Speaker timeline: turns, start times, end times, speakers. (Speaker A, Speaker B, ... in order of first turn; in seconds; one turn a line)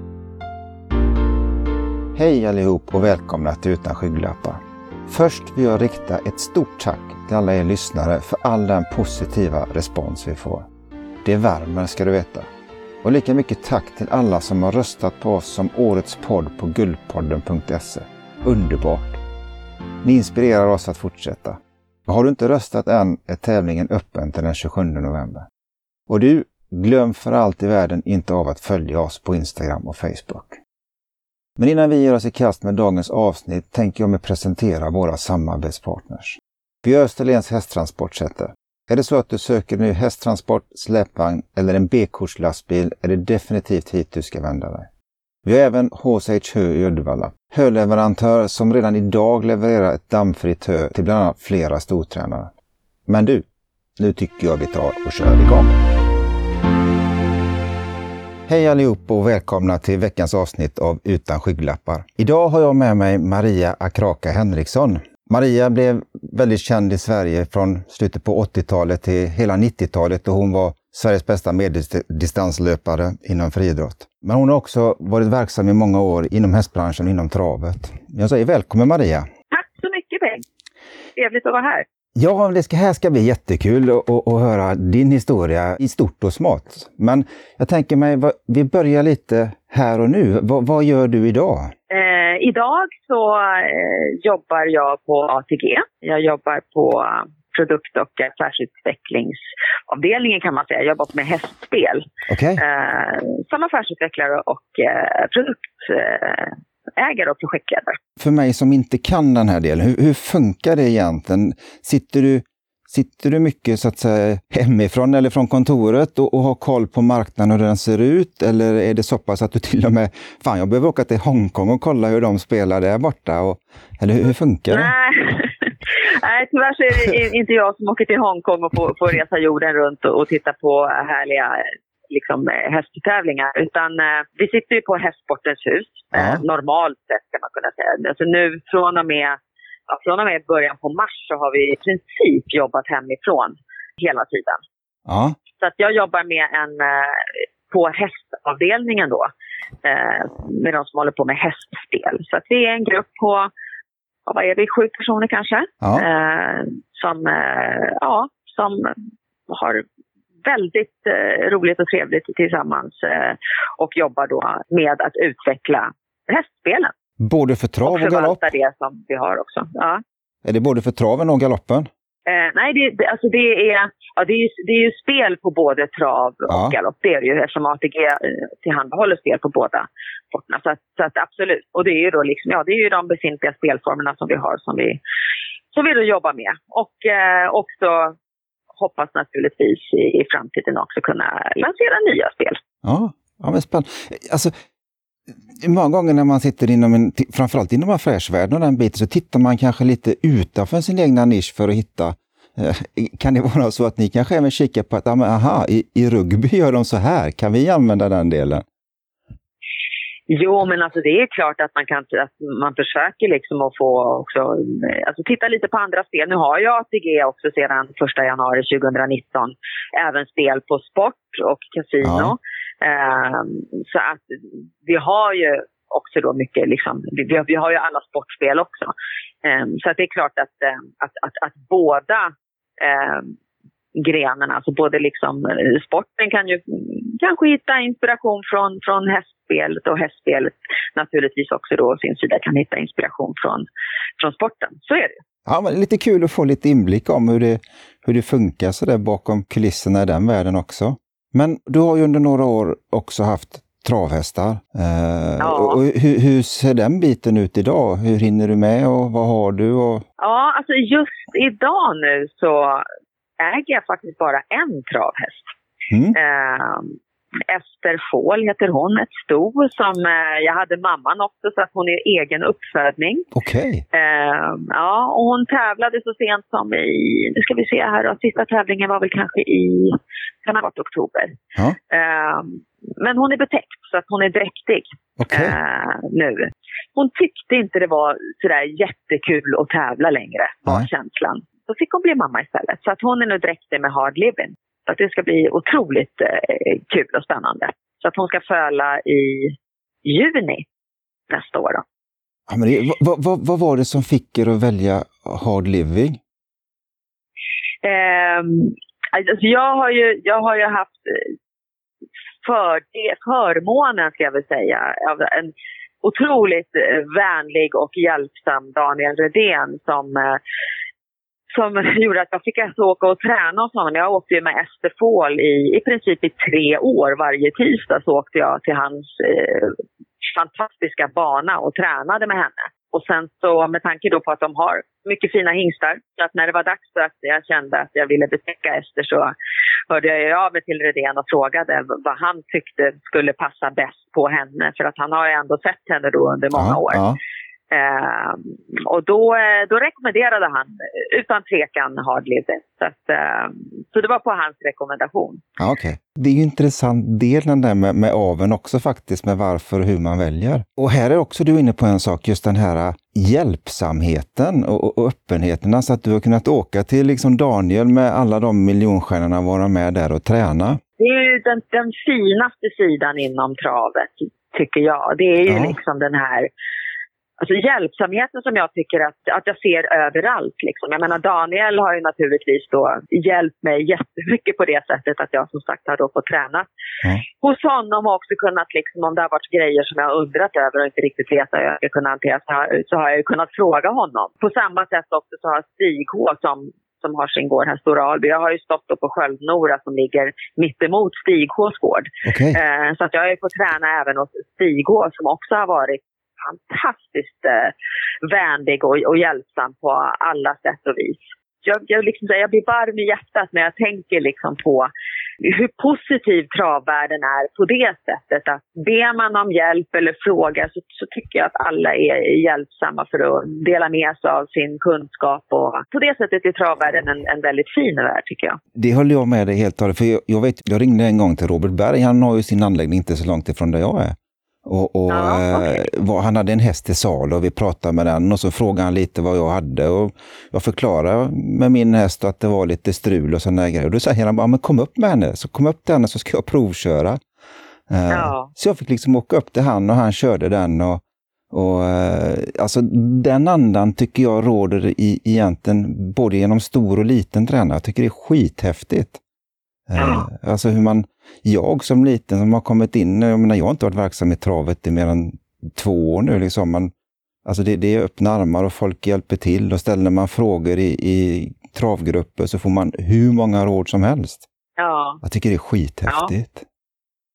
Speaker A: 2.1-10.7
Speaker A: 11.2-12.5
Speaker A: 13.0-19.2
Speaker A: 20.0-25.5
Speaker A: 26.1-30.6
Speaker A: 31.6-44.9
Speaker A: 45.4-52.5
Speaker A: 53.1-53.5
Speaker A: 54.0-55.7
Speaker A: 58.5-79.2
Speaker B: 79.5-80.4
Speaker B: 81.2-81.8
Speaker A: 82.2-91.7
Speaker B: 91.9-102.0
Speaker A: 102.3-102.6
Speaker B: 102.6-108.0
Speaker A: 108.2-124.9
Speaker B: 124.7-139.4
Speaker A: 136.1-136.4
Speaker B: 139.9-144.6
Speaker A: 145.1-145.3
Speaker B: 145.6-149.3
Speaker B: 149.8-153.5
Speaker B: 154.2-158.9
Speaker B: 159.5-159.8
Speaker B: 160.4-166.9
Speaker A: 167.2-168.4
Speaker B: 167.8-170.0
Speaker A: 170.4-171.9
Speaker B: 172.3-185.0
Speaker A: 176.5-176.8
Speaker B: 185.7-188.2
Speaker B: 188.8-192.6
Speaker A: 192.8-194.5
Speaker A: 195.5-208.6
Speaker B: 210.3-228.9
Speaker A: 222.0-222.3
Speaker B: 229.4-233.3
Speaker B: 234.0-243.7
Speaker B: 244.2-245.2
Speaker A: 245.5-260.0
Speaker B: 255.4-255.8
Speaker B: 260.2-262.9
Speaker B: 263.4-265.5
Speaker A: 265.9-266.2
Speaker B: 266.1-266.9
Speaker B: 267.5-273.3
Speaker A: 273.3-273.8
Speaker B: 273.9-281.3
Speaker B: 281.9-300.6
Speaker A: 285.2-285.6
Speaker B: 301.3-301.8
Speaker A: 302.5-306.2
Speaker B: 307.8-311.3
Speaker B: 312.4-320.4
Speaker B: 321.5-329.8
Speaker B: 330.3-339.3
Speaker B: 339.9-347.0
Speaker A: 346.5-347.2
Speaker B: 347.7-355.4
Speaker A: 355.6-370.8
Speaker B: 371.0-376.5
Speaker A: 375.5-375.7
Speaker B: 377.4-386.7
Speaker B: 387.3-407.7
Speaker A: 402.2-402.6
Speaker B: 408.2-414.9
Speaker B: 415.4-428.6
Speaker A: 428.7-447.2
Speaker B: 435.1-435.8
Speaker A: 447.9-459.2
Speaker B: 448.1-448.5
Speaker A: 459.9-466.9
Speaker A: 467.4-474.5
Speaker B: 474.8-475.2
Speaker A: 475.2-476.6
Speaker B: 476.1-476.3